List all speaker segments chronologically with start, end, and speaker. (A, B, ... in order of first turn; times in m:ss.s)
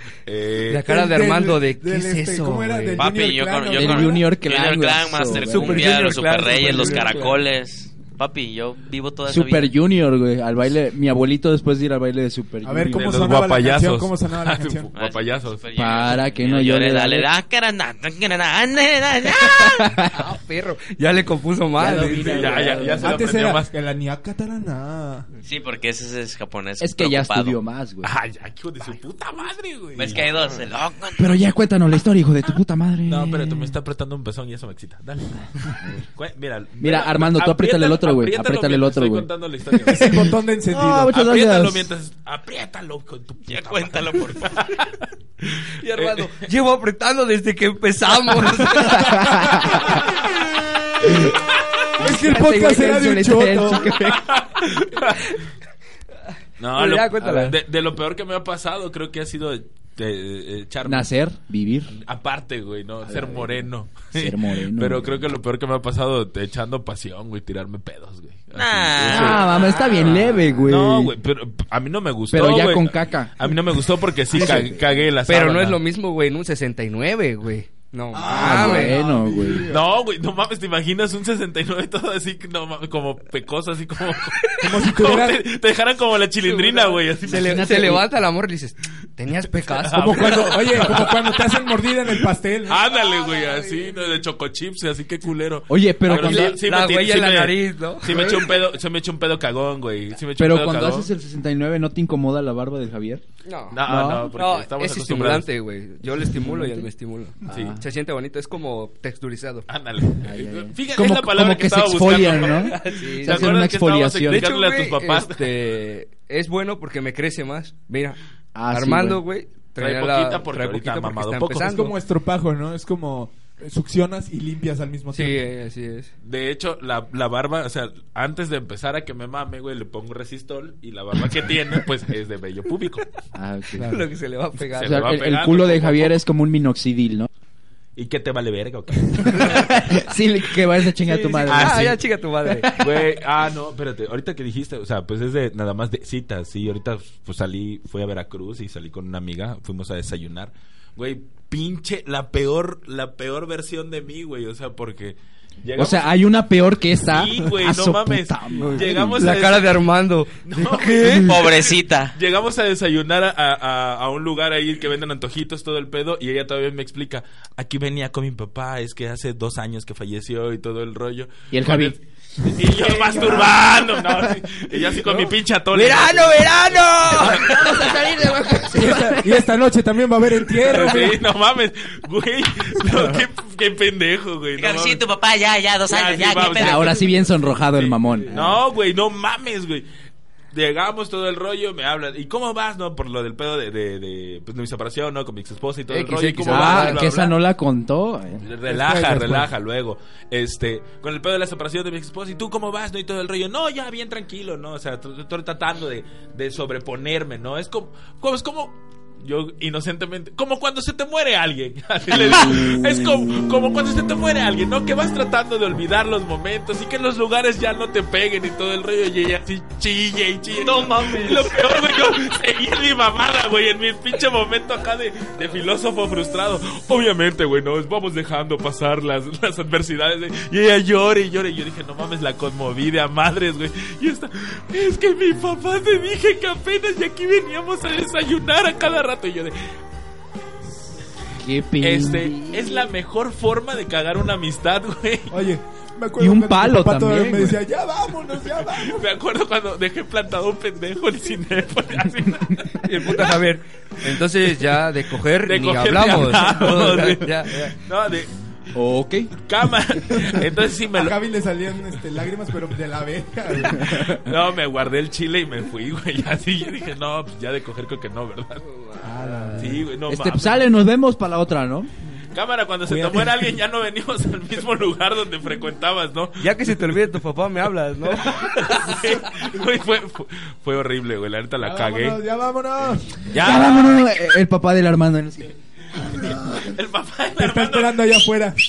0:00.3-0:00.9 A
0:00.7-0:03.1 B
0:00.8-0:04.3 C
0:03.0-0:09.7 D
0:03.7-0:05.9 E
0:05.4-0:07.4 B
0:06.8-0:07.1 C
0:09.3-0:13.3 E
0:12.6-0:14.9 C
0:12.9-0:15.6 A
0:15.0-0:19.9 D
0:15.8-0:17.3 E
0:19.4-0:20.1 E
0:20.1-0:22.9 B
0:21.8-0:23.3 E
0:21.9-0:23.7 A
0:23.0-0:25.3 C
0:25.4-0:27.6 D
0:26.8-0:28.1 E
0:28.0-0:30.6 A
0:30.0-0:31.3 D
0:31.2-0:33.8 E
0:33.1-0:40.3 A
0:36.8-0:41.9 E
0:39.9-0:41.1 C
0:41.1-0:46.4 A
0:43.5-0:44.6 D
0:45.8-0:49.2 B
0:48.9-0:49.9 E
0:52.0-0:54.3 E
0:52.0-0:53.9 C
0:54.1-0:55.3 A
0:56.6-1:01.1 A
0:56.7-0:57.6 B
1:00.8-1:01.9 E
1:01.9-1:15.8 A
1:03.0-1:05.3 E
1:08.5-1:09.5 D
1:09.0-1:11.1 E
1:09.6-1:10.1 B
1:12.3-1:13.5 E
1:14.3-1:14.8 E
1:14.4-1:14.7 C
1:15.2-1:19.1 B
1:18.1-1:19.9 C
1:18.3-1:19.7 E
1:19.7-1:27.8 A
1:24.6-1:25.4 C
1:26.4-1:30.6 B
1:27.3-1:28.1 E
1:29.7-1:41.1 A
1:29.9-1:32.8 C
1:32.9-1:34.0 B
1:35.7-1:36.6 E
1:36.1-1:38.4 B
1:38.1-1:38.4 E
1:40.4-1:43.2 E
1:43.4-1:49.7 B
1:43.7-1:45.5 A
1:43.9-1:44.3 E
1:46.1-1:46.9 E
1:47.4-1:47.8 E
1:47.5-1:47.8 A
1:49.7-1:55.6 A
1:50.2-1:54.5 E
1:52.7-1:53.6 B
1:54.3-1:58.2 B
1:58.6-1:59.2 E
1:58.7-2:01.9 B
1:59.8-2:01.7 A
2:01.7-2:05.5 C
2:05.1-2:06.1 B
2:06.2-2:13.1 A
2:13.4-2:14.0 E
2:13.8-2:14.0 C
2:13.8-2:15.0 B
2:14.7-2:17.3 E
2:14.8-2:16.2 A
2:18.0-2:19.8 A
2:19.2-2:23.0 E
2:21.0-2:22.7 B
2:21.5-2:22.0 A
2:22.8-2:36.1 A
2:35.8-2:39.4 E
2:37.1-2:39.9 A
2:38.6-2:41.4 B
2:40.4-2:57.8 A
2:41.1-2:42.2 D
2:51.5-2:52.0 E
2:52.6-2:54.3 E
2:55.7-2:59.0 B
2:57.1-2:59.5 E
2:59.0-3:01.2 C
3:00.6-3:05.0 A
3:04.6-3:07.0 D
3:05.9-3:07.1 A
3:06.6-3:08.4 E
3:07.8-3:09.9 A
3:10.5-3:17.4 A
3:15.9-3:17.1 B
3:16.5-3:18.4 E
3:18.4-3:59.6 A
3:18.7-3:19.5 C
4:01.4-4:02.9 E
4:01.8-4:05.4 A
4:05.3-4:09.1 C
4:06.2-4:07.6 E
4:08.6-4:13.4 A
4:12.8-4:17.7 B
4:14.1-4:14.7 A
4:15.4-4:18.3 A
4:18.7-4:19.4 E
4:19.4-4:21.2 A
4:21.0-4:24.2 C
4:23.6-4:28.6 A
4:28.6-4:29.7 B
4:29.0-4:29.9 C
4:29.6-4:30.6 A
4:30.1-4:31.9 E
4:32.3-4:37.0 A
4:32.9-4:33.3 C
4:36.4-4:38.4 B
4:38.2-4:42.2 A
4:41.6-4:43.3 C
4:43.3-4:44.0 A
4:43.4-4:45.5 E
4:46.2-4:48.3 A
4:47.4-4:48.6 C